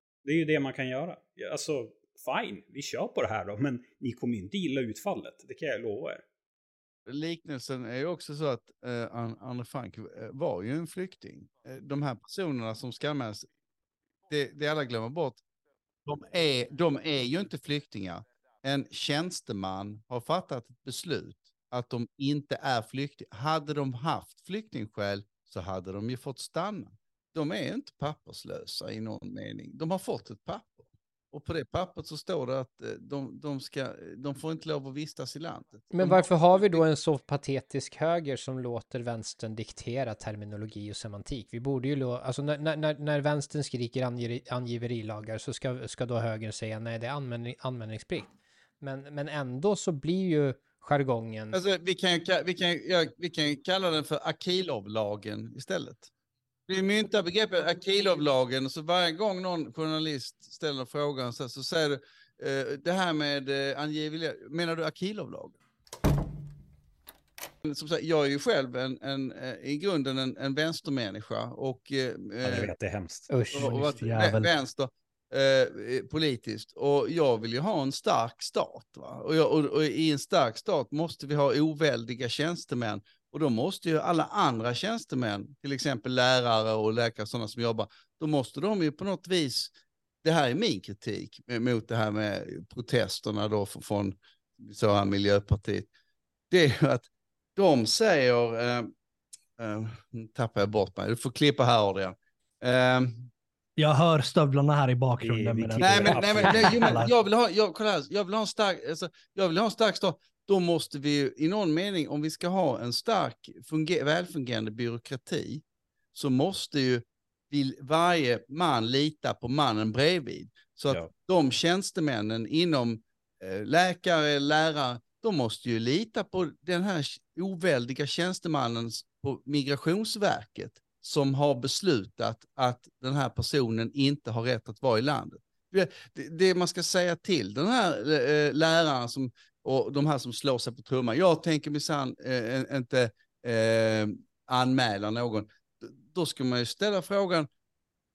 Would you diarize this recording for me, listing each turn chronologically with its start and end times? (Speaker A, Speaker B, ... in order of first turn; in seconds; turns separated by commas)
Speaker A: 0.2-6.2, Speaker B: 7.1-13.5, Speaker B: 14.3-15.4, Speaker B: 16.1-36.8, Speaker C: 35.9-51.6, Speaker B: 51.5-56.1, Speaker B: 56.7-65.6, Speaker B: 67.6-72.7, Speaker A: 72.4-73.3, Speaker C: 73.3-73.9, Speaker B: 73.5-95.9, Speaker D: 73.6-74.5, Speaker B: 96.5-98.9, Speaker B: 99.6-103.3, Speaker D: 103.8-107.1, Speaker A: 105.2-107.0, Speaker B: 105.8-115.6, Speaker B: 116.1-147.5